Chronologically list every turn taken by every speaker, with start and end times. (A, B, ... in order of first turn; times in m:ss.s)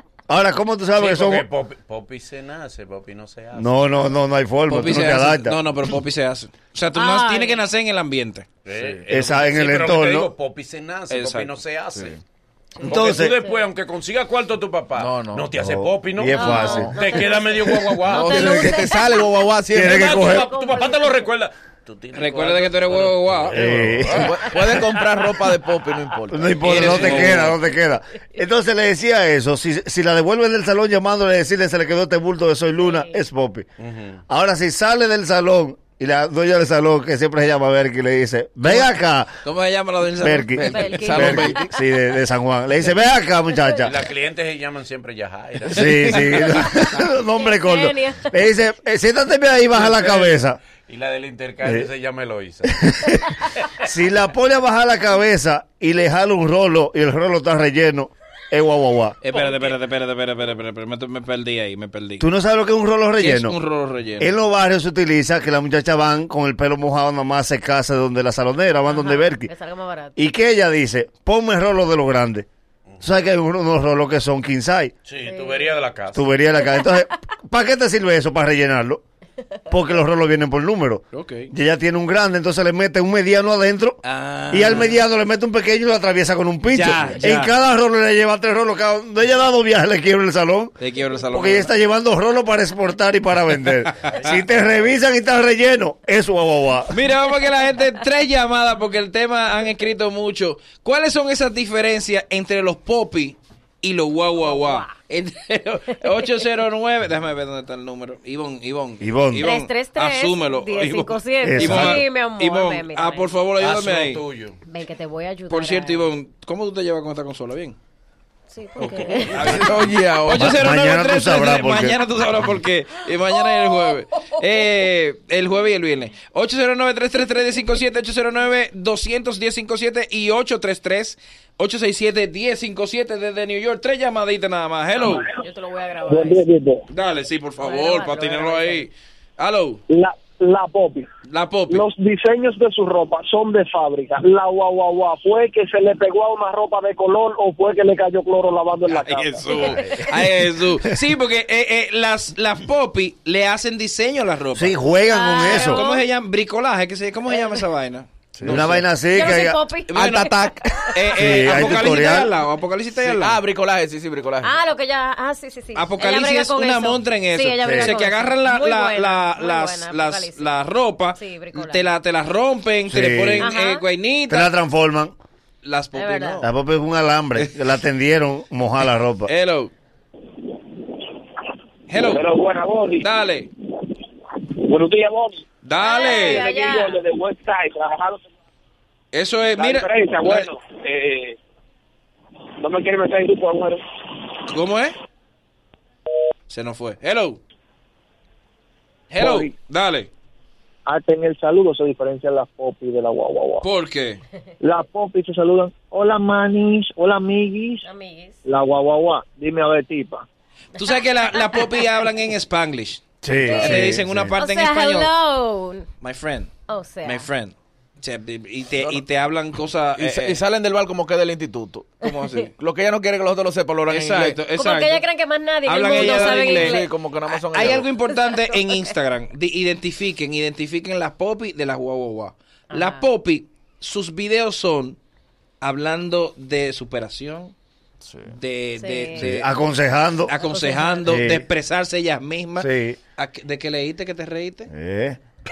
0:00.3-0:01.5 A
0:01.0-0:03.9 B
0:03.5-0:05.6 A
0:04.7-0:08.4 C
0:06.9-0:07.6 D
0:08.6-0:12.2 B
0:08.7-0:09.0 E
0:09.1-0:10.3 A
0:11.1-0:11.6 C
0:11.9-0:12.2 E
0:12.8-0:13.6 D
0:12.8-0:13.4 A
0:12.8-0:18.6 B
0:14.9-0:15.5 E
0:15.5-0:17.0 A
0:16.3-0:21.3 D
0:18.0-0:20.0 E
0:18.2-0:18.8 A
0:19.7-0:20.5 A
0:19.9-0:25.2 B
0:22.1-0:23.8 C
0:23.5-0:24.4 A
0:24.0-0:27.3 E
0:24.2-0:25.0 D
0:26.3-0:33.7 A
0:26.6-0:27.6 C
0:26.7-0:27.5 B
0:32.8-0:33.2 D
0:33.8-0:34.2 B
0:34.3-0:39.3 A
0:38.6-0:38.9 C
0:39.4-0:41.1 C
0:40.2-0:43.9 A
0:40.5-0:41.7 E
0:40.7-0:41.6 D
0:43.8-0:46.7 B
0:45.7-0:50.6 A
0:46.1-0:46.4 E
0:47.3-0:48.5 D
0:49.7-0:52.8 B
0:52.7-0:59.2 A
0:59.2-1:02.2 C
0:59.3-0:59.8 B
1:02.2-1:03.6 A
1:03.2-1:04.3 C
1:04.2-1:09.5 A
1:08.8-1:10.2 D
1:10.2-1:12.4 A
1:13.0-1:14.9 A
1:15.0-1:16.3 B
1:15.2-1:15.8 D
1:16.1-1:19.0 A
1:19.7-1:30.8 A
1:21.1-1:21.5 C
1:24.0-1:25.0 C
1:26.7-1:27.5 C
1:30.8-1:31.7 C
1:31.3-1:37.0 A
1:34.1-1:34.7 B
1:36.9-1:54.2 C
1:44.4-1:44.9 D
1:49.0-1:49.5 A
1:49.4-1:53.3 D
1:51.4-1:52.0 A
1:53.6-1:54.6 B
1:54.6-1:56.1 D
1:55.5-1:57.8 C
1:58.5-1:59.5 D
1:58.8-1:59.7 B
1:59.2-2:15.3 C
1:59.4-2:00.6 E
2:00.3-2:02.0 A
2:03.5-2:04.0 D
2:15.0-2:16.5 D
2:16.1-2:16.8 F
2:16.9-2:19.8 C
2:17.6-2:18.8 D
2:19.9-2:21.1 F
2:21.3-2:21.8 C
2:21.7-2:29.7 F
2:28.8-2:34.8 C
2:29.5-2:29.8 D
2:34.5-2:35.8 A
2:35.1-2:36.1 D
2:35.4-2:38.8 C
2:37.3-2:37.6 D
2:38.4-2:38.7 E
2:38.4-2:39.6 A
2:39.1-2:41.7 D
2:39.9-2:40.3 C
2:39.9-2:40.8 E
2:40.9-2:43.4 C
2:41.1-2:42.3 A
2:42.9-2:44.6 E
2:44.4-2:50.6 D
2:45.7-2:54.5 C
2:47.6-2:48.0 A
2:51.1-2:51.9 D
2:52.9-2:53.5 A
2:53.4-2:53.9 D
2:54.3-2:55.1 A
2:55.6-2:56.5 C
2:55.9-2:56.4 D
2:56.4-2:59.3 A
2:59.3-2:59.7 C
3:01.9-3:02.3 C
3:01.9-3:03.1 F
3:03.0-3:03.5 C
3:04.4-3:05.4 F
3:05.6-3:06.5 C
3:05.8-3:07.1 D
3:06.0-3:08.2 F
3:09.1-3:10.5 C
3:09.6-3:11.4 F
3:12.6-3:13.8 F
3:14.5-3:14.9 C
3:16.5-3:17.4 C
3:19.1-3:20.1 C
3:19.2-3:19.5 F
3:20.8-3:23.6 F
3:23.6-3:24.2 C
3:24.6-3:27.8 F
3:27.8-3:28.4 D
3:28.4-3:30.2 F
3:30.8-3:35.1 C
3:30.8-3:32.0 D
3:33.2-3:34.3 A
3:33.4-3:35.9 D
3:36.0-3:36.5 C
3:36.7-3:37.3 D
3:37.0-3:40.4 C
3:40.0-3:41.9 E
3:42.0-3:42.5 C
3:42.6-3:44.4 E
3:43.9-3:45.0 C
3:44.5-3:46.9 D
3:45.6-3:46.8 C
3:45.9-3:47.9 E
3:47.4-3:55.0 C
3:52.7-3:53.0 D
3:55.6-3:57.5 C
3:58.3-3:59.5 C
3:58.8-3:59.3 D
3:59.2-4:00.3 A
4:00.3-4:04.7 C
4:00.5-4:01.1 D
4:01.0-4:01.4 A
4:02.6-4:03.0 A
4:04.7-4:05.2 A